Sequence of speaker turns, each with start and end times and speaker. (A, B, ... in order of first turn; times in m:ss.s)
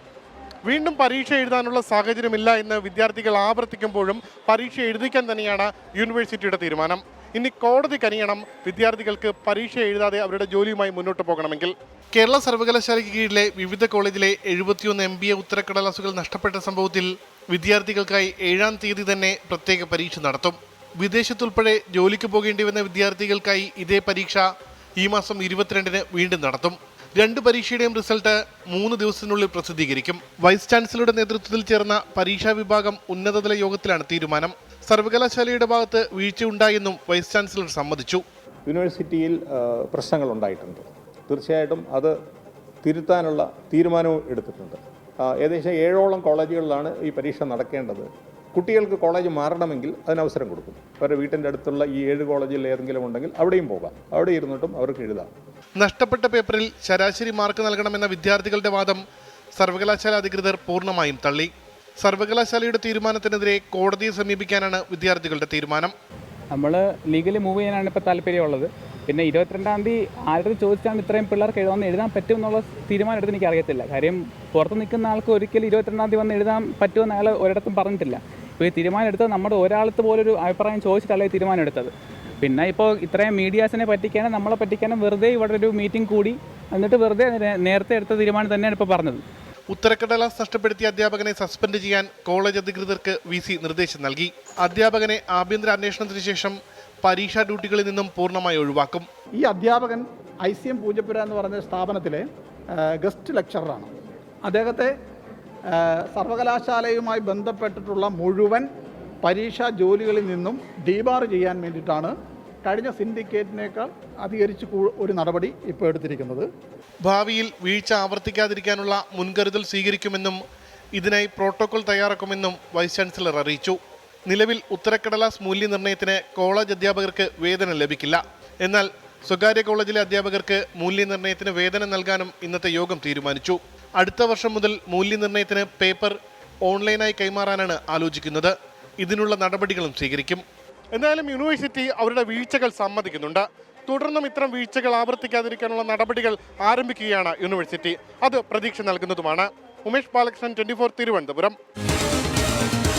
0:00.7-0:38.2 A
0:38.6-0:42.1 B
0:42.8-0:55.3 B
0:55.8-0:59.0 A
0:59.5-1:05.9 A
1:06.5-1:29.2 C
1:29.7-1:39.1 A
1:39.4-1:42.2 D
1:43.0-1:43.9 D
1:44.4-1:44.9 D
1:45.7-1:48.7 D
1:49.2-1:56.5 D
1:57.0-2:00.4 A
2:00.9-2:31.6 A